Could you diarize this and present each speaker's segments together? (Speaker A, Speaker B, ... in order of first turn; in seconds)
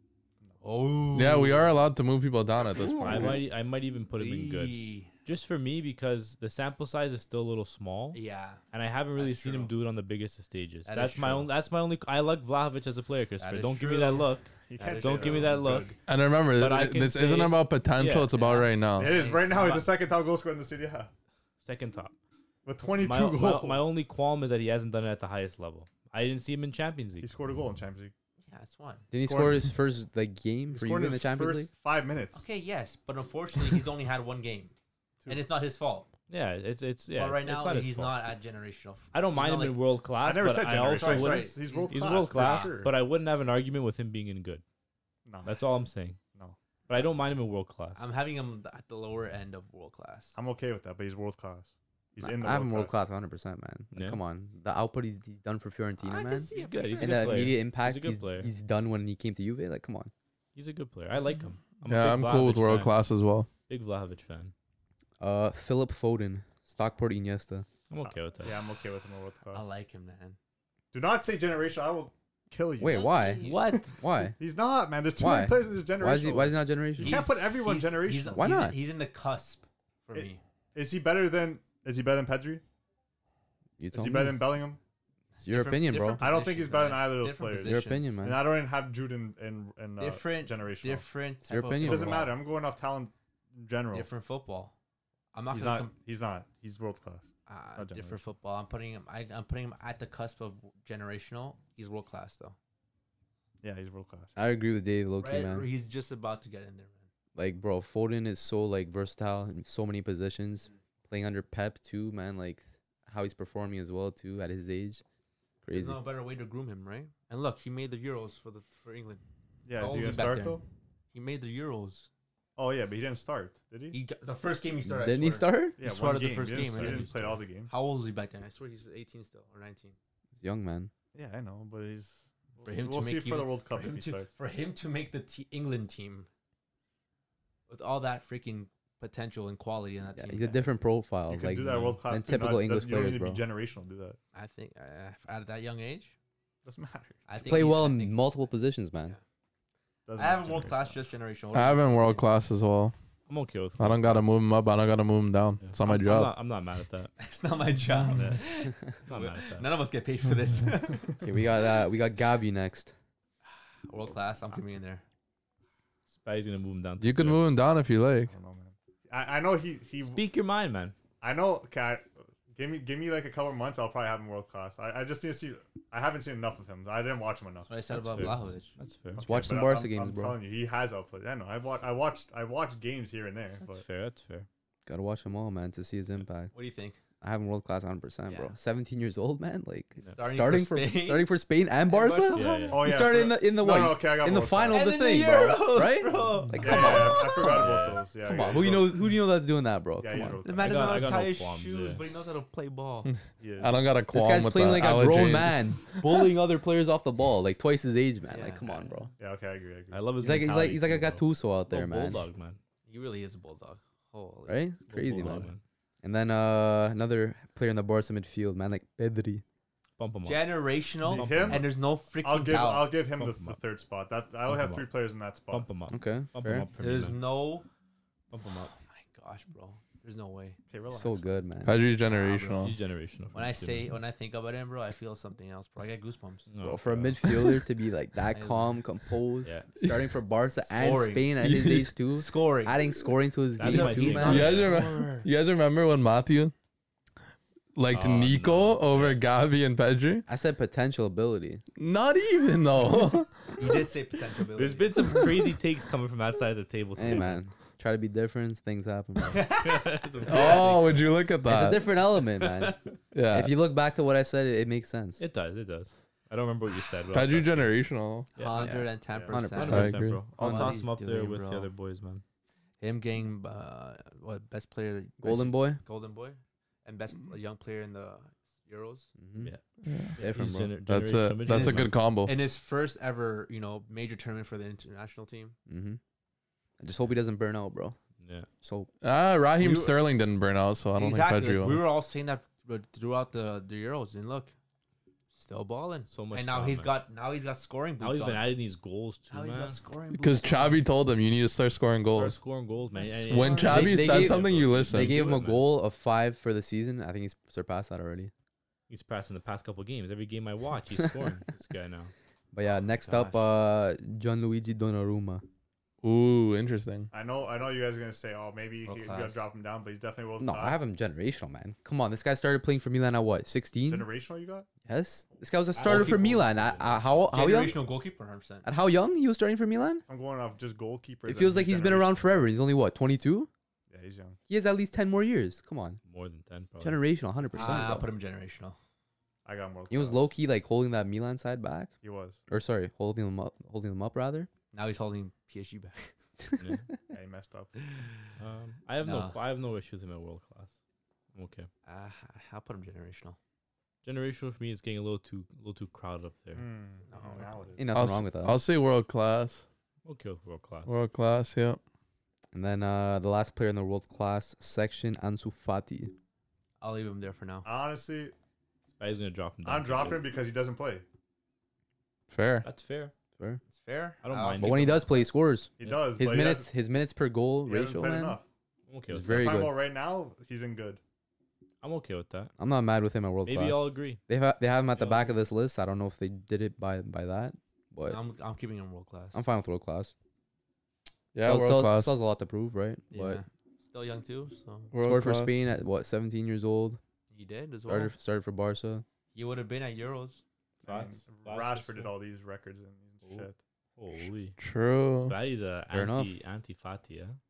Speaker A: 0.6-1.7, 4.1-5.1, 8.1-8.6, 9.2-9.7, 10.8-11.5, 13.4-15.9, 18.4-19.9, 28.4-29.1, 32.3-34.7, 35.3-36.1, 37.1-39.8, 40.9-42.8, 47.9-50.3, 56.0-57.6, 69.5-70.4, 72.8-73.7, 77.0-80.4, 85.3-88.2, 90.0-92.4, 93.9-94.7, 95.3-96.0, 97.5-102.5, 105.2-107.1, 115.7-119.2, 119.8-122.1, 123.9-130.0, 132.6-136.3, 137.7-140.7, 144.3-146.1, 147.3-148.2, 150.2-152.3, 157.2-161.2, 163.9-165.0, 177.7-178.7, 186.5-187.0, 188.3-188.5, 190.1-191.3, 191.9-192.7, 194.7-197.6, 200.4-203.1, 208.3-208.9, 212.9-214.6, 220.2-223.0, 226.8-227.7, 228.5-230.6, 232.0-232.8, 233.3-236.5, 238.3-238.8, 240.6-241.6, 242.1-242.8, 243.6-245.3, 253.6-255.3, 259.3-260.8, 268.4-271.7, 272.8-279.1, 281.4-285.6, 289.6-290.0, 290.9-294.5, 295.3-298.5, 299.3-300.8, 302.9-304.1, 313.0-313.4, 318.9-319.4, 325.8-326.3, 327.3-328.7, 337.5-338.8, 344.7-346.1, 347.8-348.1, 349.0-349.4, 351.9-353.4, 357.1-357.5, 366.8-367.7, 373.7-375.2, 388.1-389.4, 393.1-394.9, 397.3-398.1, 399.3-400.4
Speaker B: 1.1-3.4, 16.1-19.1, 61.9-63.5, 151.5-152.9, 153.8-156.3, 167.0-168.3, 203.1-206.1, 231.6-232.7, 241.4-241.9, 244.2-246.5, 247.8-250.2, 251.8-253.7, 260.3-261.9, 263.1-263.6, 267.1-268.3, 269.6-270.2, 279.8-280.1, 280.9-282.4, 289.0-291.9, 300.1-302.4, 303.3-305.2, 316.0-317.1, 357.9-359.6, 360.9-361.8, 372.3-372.6, 391.3-392.2, 394.9-395.6, 404.6-405.4
Speaker C: 3.0-8.2, 8.7-16.0, 16.5-18.6, 19.5-19.8, 21.6-22.1, 22.9-27.3, 36.3-38.2, 39.1-44.6, 45.4-46.2, 46.9-48.0, 53.9-54.2, 56.5-58.5, 60.5-63.0, 63.7-64.5, 67.9-68.6, 73.4-73.9, 126.5-127.4, 153.3-154.3, 155.6-157.1, 159.1-159.7, 166.1-167.4, 170.0-170.9, 177.9-179.2, 183.6-184.5, 192.3-192.9, 196.8-198.0, 200.6-202.1, 209.9-212.6, 214.9-215.6, 220.0-221.6, 223.1-223.6, 224.5-224.9, 225.5-227.2, 228.3-228.7, 232.6-233.9, 236.5-237.2, 239.4-239.7, 243.6-244.7, 247.9-249.2, 254.6-257.4, 259.6-261.2, 262.1-262.7, 265.2-267.7, 268.4-268.7, 269.4-272.2, 280.2-281.9, 288.2-288.5, 296.1-296.9, 298.0-299.8, 302.1-305.7, 308.9-312.1, 325.7-327.3, 336.1-337.0, 346.6-346.9, 348.4-350.7, 351.3-351.7, 354.0-356.6, 360.0-360.9, 369.0-370.2, 372.6-373.1, 374.2-375.1, 378.9-379.6, 381.8-382.5, 383.4-384.2, 384.9-385.4, 400.8-402.1, 403.2-404.6, 405.2-407.4
Speaker D: 14.7-16.0, 19.0-21.1, 22.6-23.9, 27.2-28.1, 29.1-29.7, 30.7-32.4, 40.2-42.9, 45.2-45.6, 50.3-53.0, 68.0-69.7, 70.9-78.5, 80.1-82.6, 83.9-84.8, 86.2-91.1, 91.7-94.1, 95.5-98.2, 103.6-104.3, 119.7-120.6, 122.5-124.0, 125.8-127.7, 131.1-134.3, 141.3-144.2, 146.6-147.2, 150.1-151.0, 158.1-158.4, 168.3-170.2, 171.2-178.3, 179.1-183.8, 192.7-194.9, 196.6-199.1, 200.0-201.1, 203.4-203.8, 209.2-210.1, 221.0-225.7, 230.7-231.4, 269.1-269.4, 317.1-320.8, 323.9-324.7, 330.1-332.5, 333.9-334.4, 339.4-340.3, 342.0-342.4, 347.1-347.8, 356.5-357.8, 367.6-368.3, 369.6-371.0, 375.8-376.7, 377.6-378.4, 379.2-381.0, 400.8-403.6
Speaker E: 29.1-31.7, 52.2-60.1, 65.2-67.7, 72.8-73.4, 74.0-74.3, 75.2-77.2, 78.3-78.8, 83.8-84.5, 85.4-86.3, 87.6-88.5, 91.4-92.3, 104.3-105.7, 107.3-115.0, 115.6-116.0, 124.8-125.8, 130.4-130.9, 140.1-143.4, 147.4-149.2, 161.2-162.9, 179.2-180.4, 184.8-186.5, 187.2-200.4, 204.1-209.1, 210.2-212.2, 214.5-215.5, 216.0-219.4, 225.9-226.7, 230.9-231.8, 236.6-244.6, 250.3-251.6, 257.0-259.5, 261.4-262.7, 263.3-265.2, 268.6-270.8, 275.2-275.8, 279.2-279.5, 280.2-280.7, 285.7-286.0, 286.8-287.9, 288.6-288.9, 303.7-308.3, 312.5-315.4, 320.4-324.1, 324.8-327.8, 328.6-330.0, 331.3-333.5, 334.5-336.0, 336.8-338.1, 339.9-341.9, 342.5-344.5, 357.8-358.6, 362.5-366.1, 374.6-378.4, 379.1-379.7, 382.6-388.2, 389.3-390.1, 391.4-393.4, 395.0-397.0, 397.9-399.0, 405.9-406.4